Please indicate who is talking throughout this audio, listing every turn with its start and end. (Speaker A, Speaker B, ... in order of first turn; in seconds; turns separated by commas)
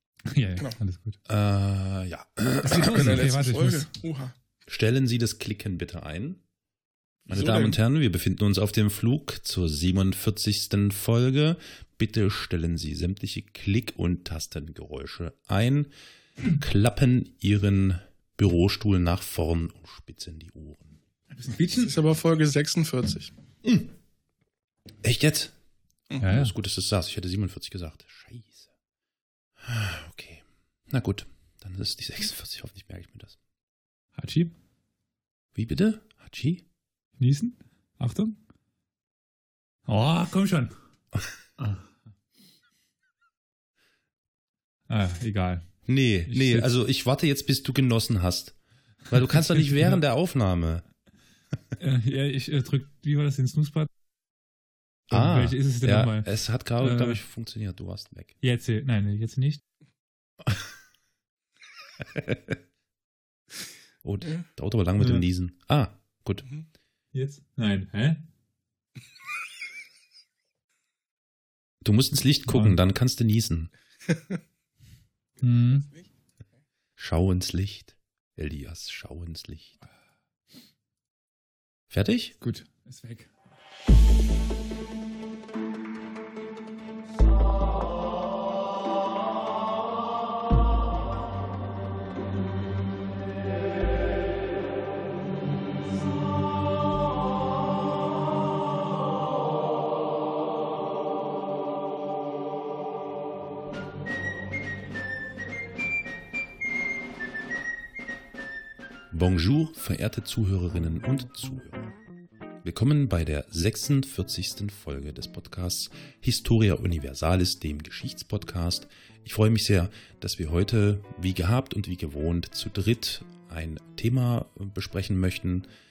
Speaker A: 0.2-1.2, Speaker B: 1.3-3.2, Speaker C: 2.6-4.4, Speaker A: 2.9-3.9, Speaker B: 4.7-6.4, Speaker B: 7.3-15.9, Speaker C: 7.3-7.8, Speaker B: 16.4-21.0, Speaker A: 21.4-21.9, Speaker C: 21.8-23.3, Speaker B: 23.6-23.9, Speaker B: 25.0-25.6, Speaker A: 26.2-26.5, Speaker B: 26.2-28.7, Speaker B: 29.6-33.4, Speaker A: 34.2-34.5, Speaker B: 35.5-36.6, Speaker A: 37.2-38.4, Speaker A: 39.9-40.8, Speaker A: 41.6-41.9, Speaker A: 44.9-45.7, Speaker B: 45.9-48.5, Speaker A: 46.3-46.7, Speaker B: 49.1-50.9, Speaker A: 49.5-50.0, Speaker A: 51.8-53.9, Speaker B: 55.1-58.4, Speaker A: 55.1-56.3, Speaker A: 56.8-57.2, Speaker A: 58.4-59.6, Speaker B: 64.0-66.5, Speaker A: 65.0-65.2, Speaker A: 67.1-68.2, Speaker B: 71.8-73.7, Speaker A: 72.5-72.8, Speaker A: 75.4-75.9, Speaker B: 77.0-79.8, Speaker B: 81.9-82.3, Speaker A: 82.4-83.3, Speaker B: 109.1-111.9, Speaker B: 112.6-125.7